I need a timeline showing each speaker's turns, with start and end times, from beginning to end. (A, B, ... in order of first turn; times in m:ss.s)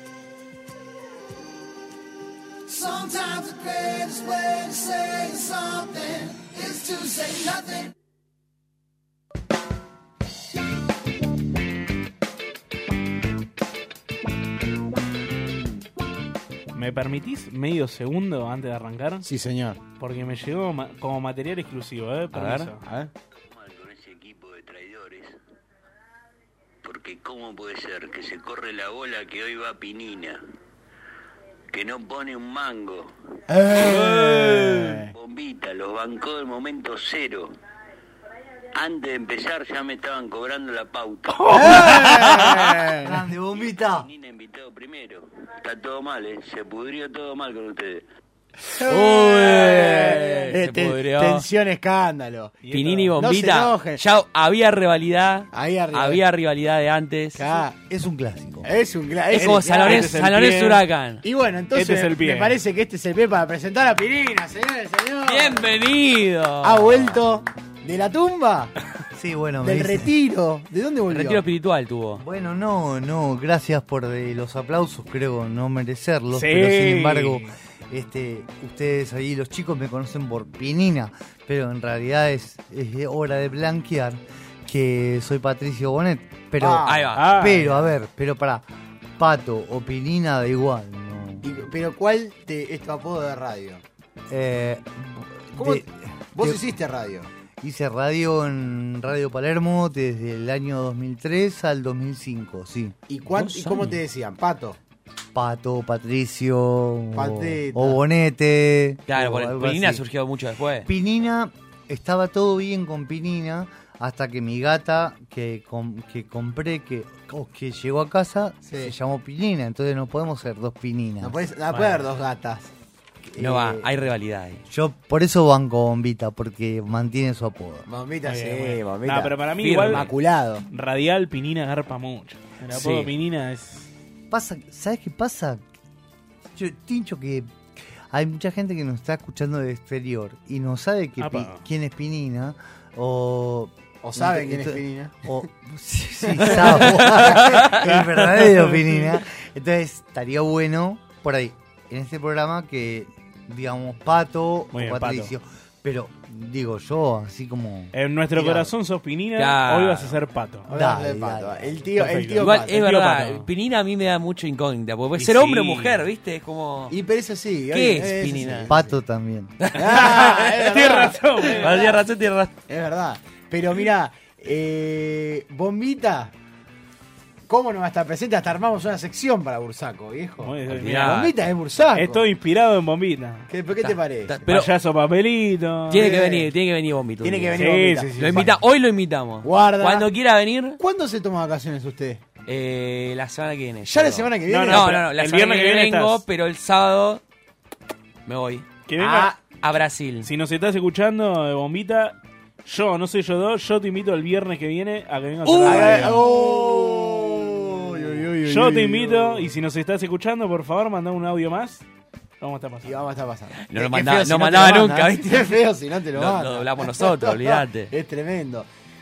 0:02.7-0:07.9 A
0:16.7-0:19.3 B
0:19.2-0:19.8 C
0:20.0-0:22.8 B
0:22.3-0:22.7 D
0:22.8-0:23.1 C
0:23.5-0:25.4 E
0:26.8-0:30.4 E
0:31.7-0:33.1 E
0:33.5-0:35.1 C
0:34.4-0:34.9 B
0:35.1-0:37.5 E
0:38.7-0:41.6 E
0:41.3-0:42.4 B
0:41.5-0:43.2 C
0:43.0-0:44.1 F
0:43.6-0:48.0 E
0:48.7-0:52.6 C
0:48.9-0:51.5 D
0:52.6-0:53.1 B
0:52.7-0:57.5 D
0:53.2-0:54.0 C
0:55.5-0:56.2 C
0:57.4-0:57.8 C
0:57.8-0:58.7 F
0:58.6-1:00.2 C
0:59.3-1:01.2 D
0:59.3-1:00.8 B
1:01.2-1:05.8 C
1:01.7-1:02.6 B
1:05.2-1:07.2 D
1:06.6-1:08.8 C
1:09.1-1:10.1 F
1:09.6-1:11.4 C
1:11.1-1:12.2 D
1:12.2-1:28.6 F
1:16.3-1:17.5 B
1:26.6-1:27.1 C
1:26.8-1:27.5 D
1:27.2-1:27.8 B
1:29.2-1:31.6 F
1:31.4-1:33.8 C
1:34.3-1:36.6 F
1:35.6-1:37.3 C
1:37.6-1:43.0 F
1:43.1-1:44.8 C
1:43.4-1:43.9 D
1:45.3-1:50.0 F
1:47.1-1:48.0 C
1:49.1-1:50.9 D
1:50.8-2:01.4 F
1:58.7-1:58.9 C
2:01.2-2:02.7 C
2:01.7-2:02.1 B
2:03.2-2:03.9 F
2:03.4-2:04.6 D
2:04.7-2:07.9 F
2:07.9-2:10.6 C
2:08.3-2:10.1 B
2:09.6-2:10.1 D
2:10.6-2:13.9 B
2:12.8-2:13.1 D
2:14.3-2:15.6 F
2:16.5-2:17.5 F
2:18.1-2:37.9 F
2:21.2-2:21.6 B
2:24.0-2:25.3 C
2:26.3-2:27.2 C
2:27.0-2:27.9 D
2:34.7-2:35.3 B
2:37.9-2:40.7 B
2:38.4-2:38.7 C
2:39.4-2:40.2 D
2:40.6-2:42.8 C
2:40.7-2:41.9 F
2:42.0-2:43.5 B
2:42.4-2:47.0 D
2:45.2-2:45.8 C
2:45.3-2:45.8 B
2:46.9-2:48.9 C
2:47.7-2:48.7 D
2:48.7-2:49.6 F
2:49.6-2:50.5 D
2:49.8-2:51.7 C
2:49.8-2:52.0 B
2:51.5-2:52.5 D
2:52.7-2:56.3 C
2:57.5-3:02.3 C
3:00.4-3:01.2 B
3:00.7-3:01.3 D
3:02.0-3:03.5 B
3:03.5-3:04.5 C
3:03.8-3:04.7 D
3:04.5-3:06.1 B
3:05.9-3:07.6 D
3:05.9-3:06.5 C
3:07.2-3:08.6 C
3:07.6-3:08.5 B
3:08.2-3:10.8 D
3:09.4-3:10.1 C
3:10.8-3:12.2 C
3:12.5-3:17.2 D
3:13.8-3:15.0 C
3:14.5-3:16.2 B
3:18.3-3:18.7 D
3:18.9-3:19.3 B
3:19.0-3:19.4 C
3:19.6-3:20.3 D
3:20.2-3:26.2 B
3:25.5-3:26.2 D
3:25.6-3:29.5 C
3:28.5-3:31.8 B
3:32.4-3:33.1 B
3:32.8-3:38.7 C
3:33.7-3:35.6 D
3:36.1-3:37.9 D